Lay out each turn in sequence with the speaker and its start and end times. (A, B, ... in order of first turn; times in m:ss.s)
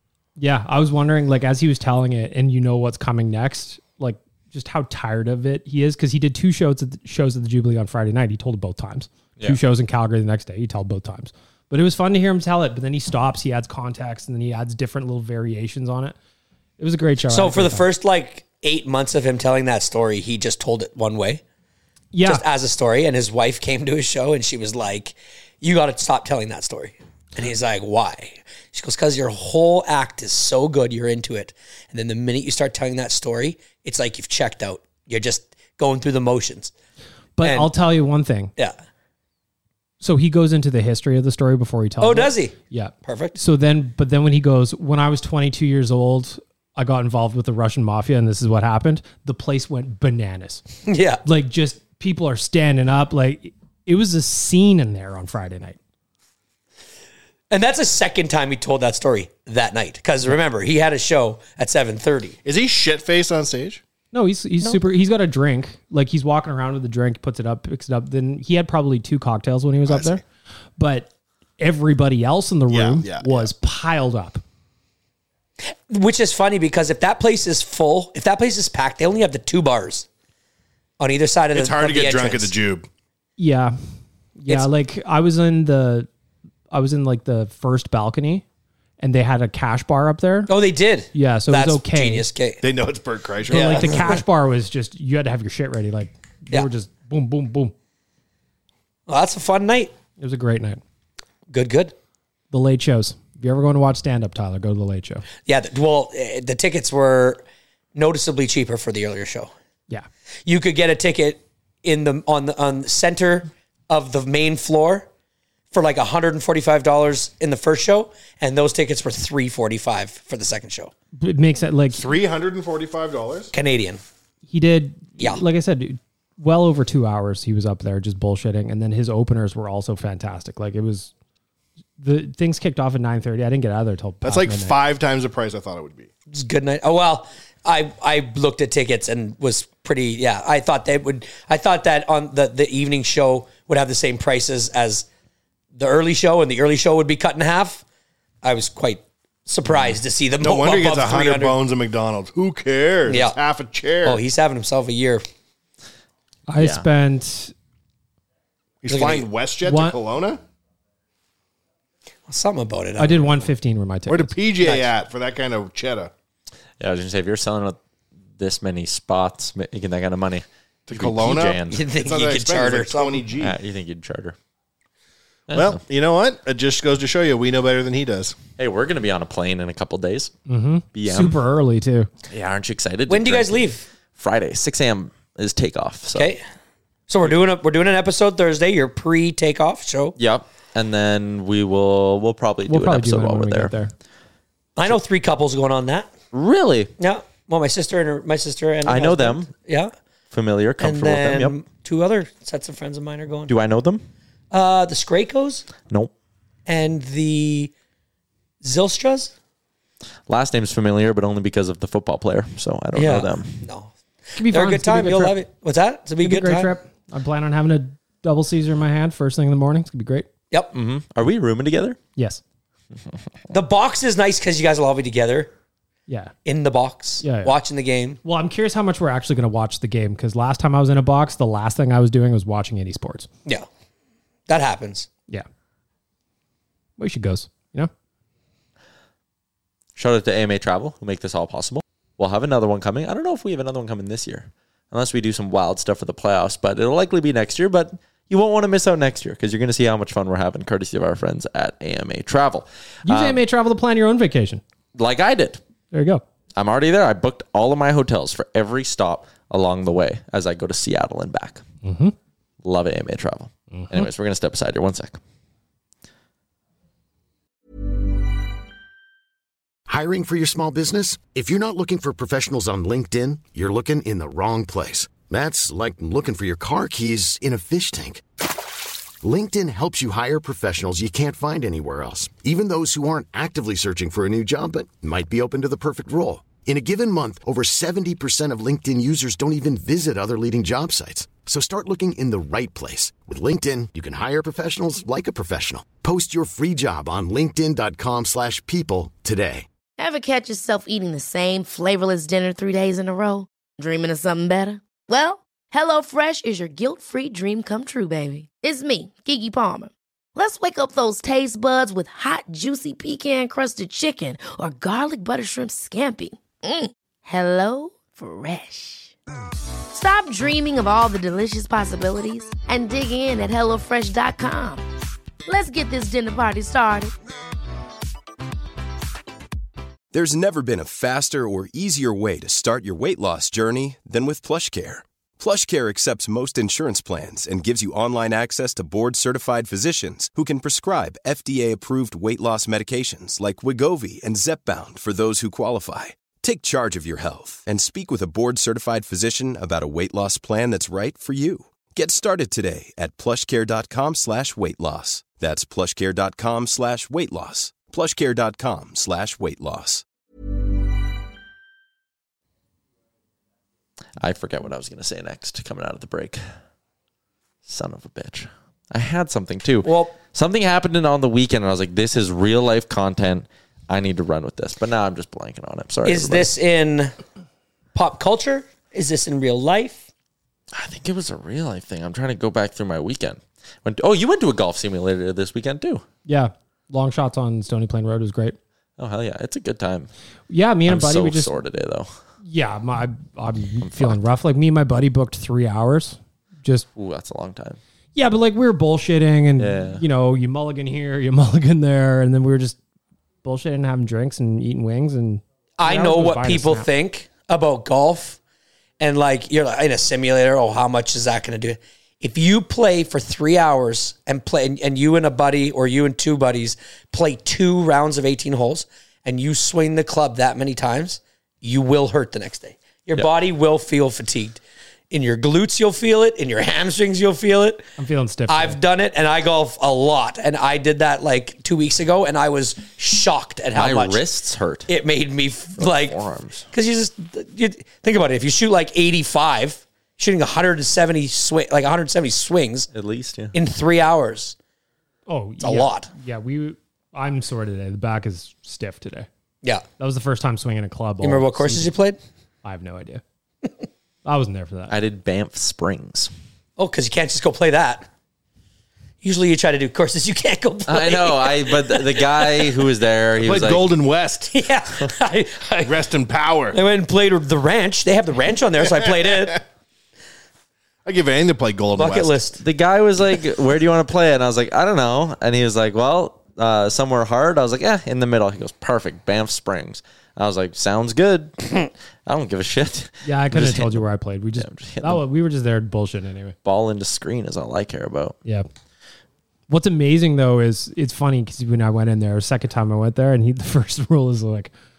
0:00.4-0:16.2 A
0:16.8-0:17.9 A
0:17.3-0:21.4 B
0:22.1-0:22.4 A
0:22.2-0:36.7 B
0:37.4-0:38.5 A
0:37.4-0:37.7 B
0:40.0-0:50.6 A
0:42.0-0:43.4 B
0:50.9-0:51.2 B
0:51.2-0:55.8 A
0:57.5-1:02.4 B
1:02.4-1:03.8 C
1:04.1-1:10.2 A
1:09.9-1:10.2 C
1:10.8-1:14.4 A
1:12.7-1:13.5 C
1:15.9-1:20.1 B
1:21.0-1:22.5 B
1:21.5-1:22.9 C
1:23.4-1:23.8 A
1:24.4-1:26.1 A
1:26.7-1:28.4 A
1:29.0-1:30.5 A
1:30.5-1:32.6 B
1:31.1-1:32.3 A
1:32.6-1:34.1 C
1:33.5-1:37.7 A
1:33.5-1:34.2 B
1:39.1-1:39.9 B
1:40.2-1:40.8 A
1:41.5-1:41.9 B
1:42.5-1:45.2 A
1:45.4-1:47.4 B
1:48.0-1:49.5 B
1:50.5-1:55.1 B
1:55.7-2:00.9 B
2:01.2-2:02.0 A
2:01.9-2:03.5 C
2:03.5-2:04.0 B
2:04.5-2:11.1 A
2:12.0-2:14.8 A
2:14.2-2:16.1 C
2:16.3-2:25.1 B
2:25.8-2:27.8 B
2:28.4-2:31.6 B
2:30.4-2:34.2 C
2:33.1-2:33.4 B
2:34.0-2:35.2 B
2:36.5-2:37.5 A
2:36.6-2:36.8 D
2:38.8-2:40.4 C
2:38.9-2:39.3 B
2:39.6-2:40.0 A
2:42.3-2:43.5 B
2:43.0-2:44.4 A
2:44.1-2:46.1 C
2:44.6-2:44.9 B
2:46.8-2:47.8 D
2:48.4-2:51.8 D
2:50.9-2:53.6 C
2:51.7-2:53.2 B
2:53.4-2:54.4 D
2:55.5-2:55.8 D
2:55.5-2:58.4 C
2:58.6-3:00.3 D
3:00.5-3:02.1 A
3:00.9-3:01.4 D
3:02.3-3:06.3 D
3:03.1-3:03.9 B
3:06.1-3:06.4 B
3:07.1-3:10.2 B
3:10.2-3:13.7 D
3:12.7-3:13.9 A
3:14.8-3:16.1 B
3:16.3-3:16.9 D
3:17.0-3:19.9 B
3:18.8-3:19.5 D
3:20.3-3:21.6 D
3:20.8-3:23.5 B
3:23.5-3:24.0 D
3:24.5-3:25.7 B
3:26.7-3:27.7 B
3:28.6-3:29.3 B
3:30.3-3:33.6 D
3:33.0-3:36.7 B
3:34.4-3:35.4 A
3:36.2-3:40.3 A
3:40.7-3:42.0 D
3:42.2-3:42.4 A
3:43.5-3:45.5 B
3:46.1-3:46.3 A
3:46.4-3:48.2 B
3:47.2-3:47.6 A
3:48.2-3:53.3 A
3:54.5-3:55.1 B
3:57.0-3:57.9 A
4:00.0-4:13.4 D
4:13.0-4:14.6 A
4:15.0-4:15.6 D
4:15.9-4:16.2 A
4:16.6-4:21.6 D
4:21.8-4:22.2 A
4:22.6-4:25.2 D
4:23.7-4:24.1 A
4:29.9-4:38.2 E
4:39.2-4:59.7 E
5:00.0-5:19.1 F
5:19.9-5:24.8 F
5:25.5-5:27.1 F
5:30.1-6:00.0 G
6:04.2-6:06.4 D
6:07.7-6:16.5 D
6:09.8-6:10.1 B
6:16.0-6:17.1 B
6:18.0-6:20.0 B
6:20.7-6:26.0 D
6:26.3-6:28.6 A
6:29.0-6:30.1 D
6:30.5-6:31.5 A
6:30.9-6:32.1 D
6:32.4-6:36.9 A
6:33.8-6:34.2 D
6:37.0-6:37.8 D
6:38.2-6:42.8 A
6:39.6-6:40.0 D
6:43.4-6:46.9 A
6:45.8-6:48.4 B
6:49.0-7:04.6 B
7:05.1-7:07.9 B
7:08.0-7:08.8 A
7:08.5-7:14.2 B
7:13.8-7:14.9 D
7:14.9-7:16.2 B
7:15.8-7:16.7 D
7:16.7-7:22.9 B
7:22.9-7:23.5 D
7:23.5-7:24.6 B
7:25.3-7:29.3 A
7:25.6-7:26.1 B
7:30.0-7:32.0 A
7:31.2-7:32.2 B
7:32.6-7:33.2 A
7:34.2-7:34.9 A
7:34.9-7:36.3 D
7:36.8-7:38.1 B
7:39.2-7:42.7 B
7:40.9-7:43.9 D
7:43.4-7:44.6 C
7:44.5-7:46.0 B
7:45.8-7:46.8 C
7:46.7-7:49.6 B
7:49.0-7:49.3 C
7:51.0-7:52.4 C
7:52.0-7:52.6 B
7:52.6-8:01.7 D
8:02.3-8:04.0 D
8:03.2-8:06.6 A
8:04.6-8:05.2 D
8:06.6-8:08.4 D
8:09.7-8:14.7 A